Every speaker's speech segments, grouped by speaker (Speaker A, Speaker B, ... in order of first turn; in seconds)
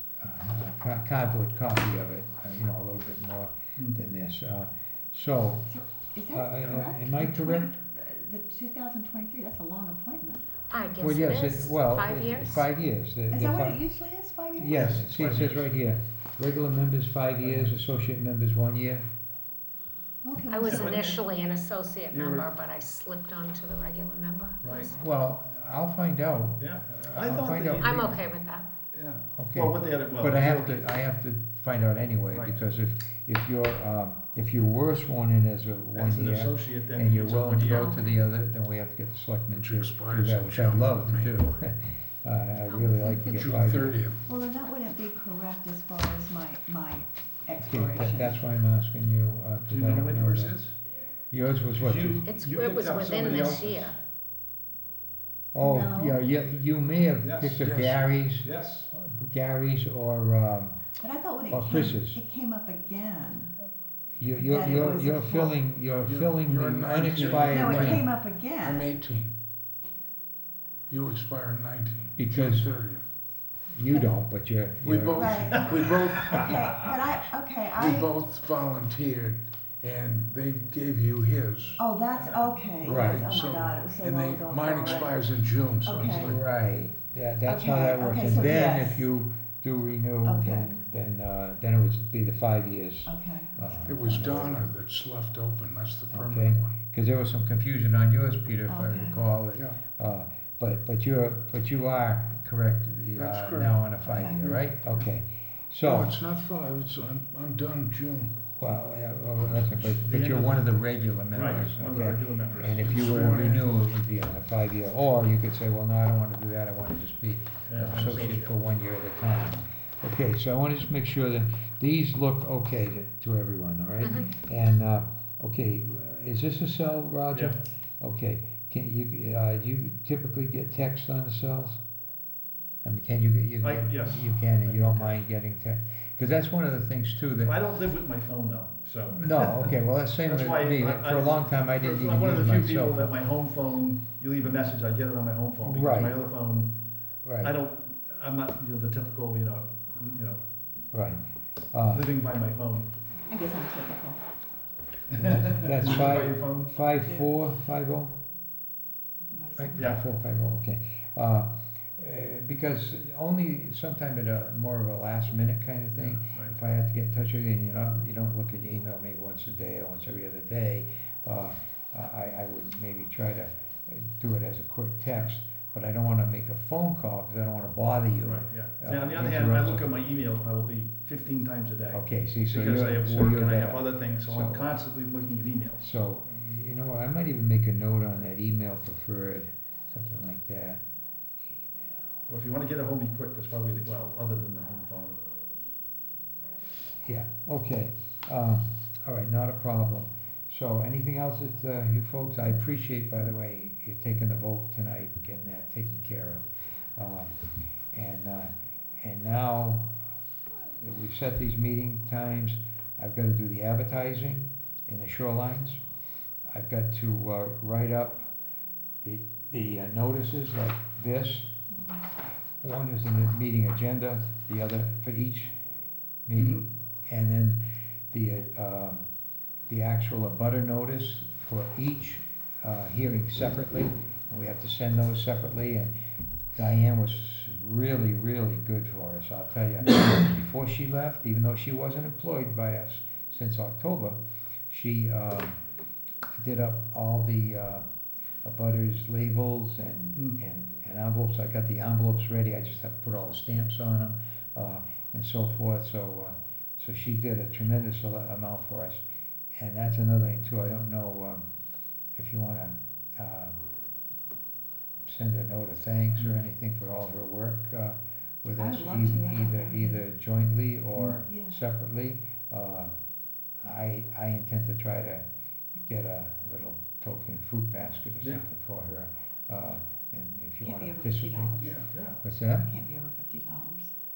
Speaker A: 0.2-5.7, 6.3-7.7, 11.0-13.8, 14.6-19.1, 25.0-28.2, 29.4-44.1, 47.6-50.6, 51.3-52.3, 55.5-60.9, 61.5-62.2, 64.2-68.1, 72.2-72.7, 73.7-75.7, 82.8-83.3, 86.0-94.7, 96.1-106.2, 108.6-131.8, 132.8-137.6, 139.2-143.1, 145.7-146.2, 147.2-147.5, 150.9-152.1, 155.1-158.2, 159.6-179.9, 181.9-184.8, 185.8-190.8, 197.0-207.3, 207.9-209.9, 210.7-215.8, 216.5-218.3, 219.0-221.6, 222.6-225.6, 226.3-229.1, 229.7-236.0, 236.6-245.6, 246.4-247.9, 248.4-259.0, 259.6-261.4, 262.1-263.7, 265.1-272.9, 273.6-275.3, 275.9-281.6, 282.2-282.7
Speaker B: 5.7-10.5, 13.3-14.9, 20.2-21.2, 44.3-48.4, 55.6-56.2, 61.0-63.6, 64.4-65.6, 67.4-68.9, 75.1-75.8, 76.4-78.1, 81.8-85.2, 85.8-86.3, 87.5-89.1, 90.2-90.7, 93.1-94.4, 98.7-99.2, 104.0-104.6, 153.3-154.2, 159.3-160.0, 268.6-270.0, 271.3-271.6, 280.6-281.8, 282.6-283.9
Speaker C: 10.7-12.7, 20.5-24.9, 27.8-28.7, 42.7-43.3, 52.2-54.0, 124.0-124.3
Speaker D: 14.7-15.7, 20.7-21.1, 22.1-22.5, 24.6-25.0, 26.6-28.2, 28.9-30.9, 32.3-32.6, 35.9-38.0, 49.6-50.8, 51.8-54.0, 57.2-57.6, 58.4-58.9, 110.1-110.6, 111.3-113.3, 117.7-118.5, 133.6-135.2, 137.4-146.8, 147.4-150.4, 151.9-152.9, 155.1-156.7, 165.9-166.5, 178.2-185.8, 192.3-195.2, 226.4-226.6, 281.9-282.2
Speaker E: 39.5-41.5, 43.2-44.2, 57.6-58.2, 64.7-65.2, 65.8-69.4, 70.9-73.0, 74.8-76.9, 77.7-86.5, 93.9-96.8, 99.5-99.8, 103.1-105.1, 105.8-108.5, 112.8-113.9, 281.6-281.9